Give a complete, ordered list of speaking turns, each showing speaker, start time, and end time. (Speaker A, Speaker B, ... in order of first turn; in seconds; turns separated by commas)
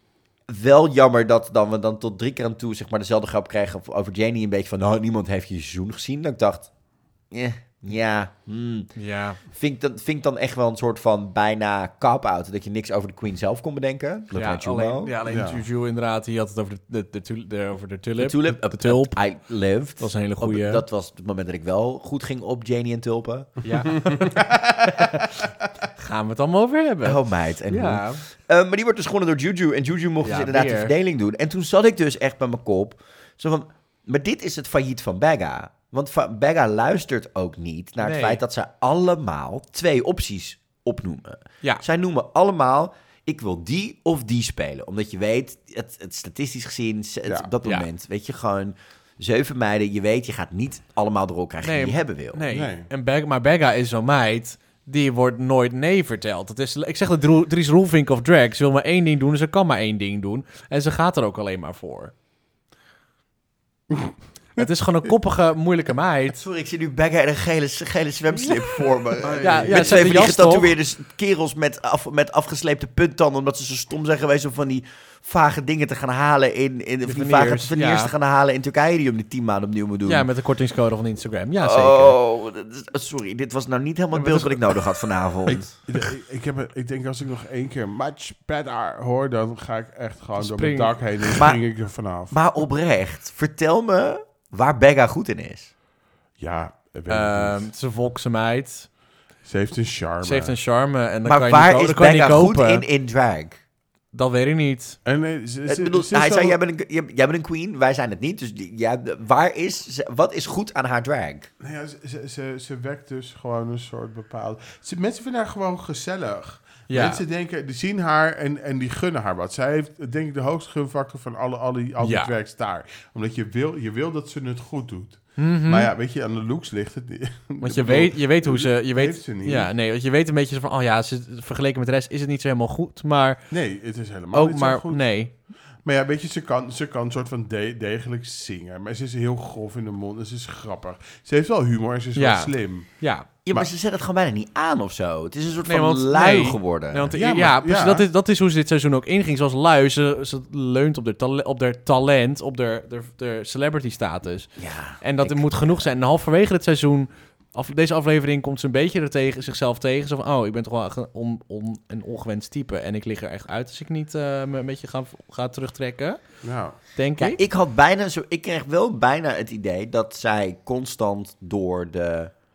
Speaker A: 0.5-6.7, Speaker A: 7.3-8.9, Speaker B: 8.9-9.4, Speaker A: 9.5-15.1, Speaker B: 14.3-19.2, Speaker C: 15.2-15.6, Speaker A: 18.2-23.5, Speaker B: 20.0-20.8, Speaker B: 23.6-28.2, Speaker C: 24.1-25.1, Speaker A: 27.0-52.4, Speaker B: 30.2-30.9, Speaker B: 38.0-38.4, Speaker C: 47.2-47.5, Speaker B: 51.6-62.1, Speaker C: 52.5-52.9, Speaker C: 63.9-64.7, Speaker B: 64.5-66.4, Speaker A: 66.3-80.2, Speaker C: 69.2-70.2, Speaker B: 69.4-70.7, Speaker B: 77.0-78.1, Speaker B: 80.0-82.2, Speaker A: 81.6-85.7, Speaker B: 84.1-84.9, Speaker C: 85.5-92.3, Speaker B: 90.4-91.0, Speaker A: 92.3-95.7, Speaker C: 96.4-97.7, Speaker B: 97.1-98.9, Speaker C: 99.4-100.5, Speaker B: 100.2-102.8, Speaker A: 101.2-103.6, Speaker B: 104.1-105.0, Speaker C: 105.0-106.6, Speaker A: 105.7-111.5, Speaker C: 111.6-129.7, Speaker B: 116.9-117.2, Speaker B: 122.0-122.3, Speaker B: 125.4-125.9, Speaker B: 127.6-133.4, Speaker C: 133.5-135.0, Speaker B: 134.3-135.3, Speaker C: 135.8-142.9, Speaker B: 142.2-143.3, Speaker A: 143.4-147.1, Speaker B: 145.7-166.2, Speaker C: 147.1-148.1, Speaker A: 154.6-155.8, Speaker C: 166.4-166.8, Speaker B: 166.9-167.4, Speaker A: 167.2-172.3